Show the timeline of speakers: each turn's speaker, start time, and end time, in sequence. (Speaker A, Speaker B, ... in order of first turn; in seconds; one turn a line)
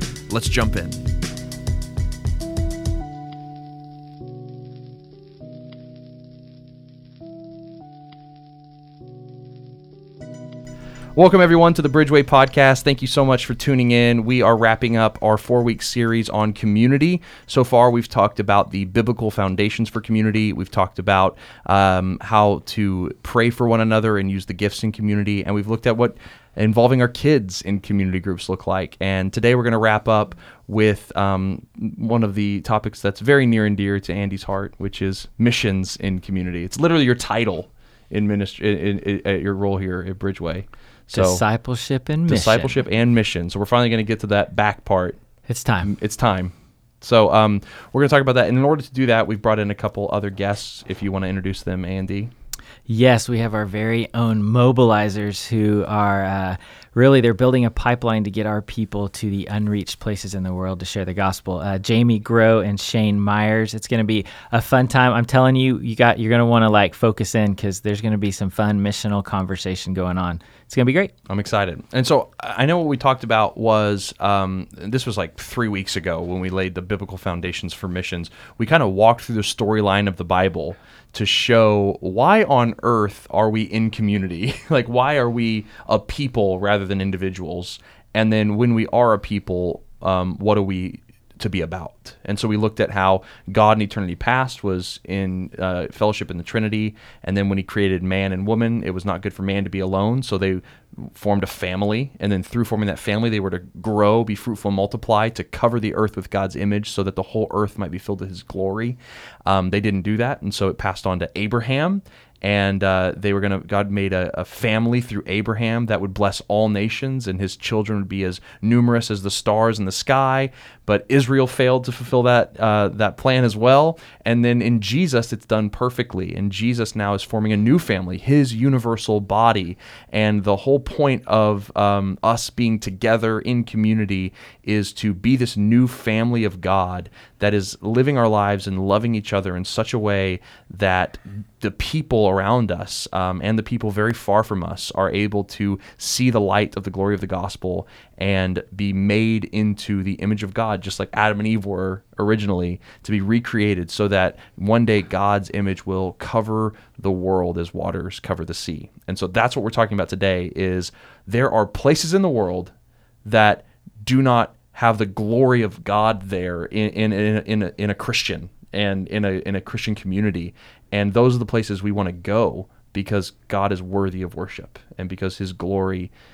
Speaker A: 0.3-1.1
Speaker A: 11.1-41.4
Speaker B: 41.1-42.8
Speaker A: 42.3-45.2
Speaker B: 45.5-45.9
Speaker A: 45.8-52.3
Speaker B: 52.9-71.1
Speaker A: 71.3-162.7
Speaker A: 163.2-176.1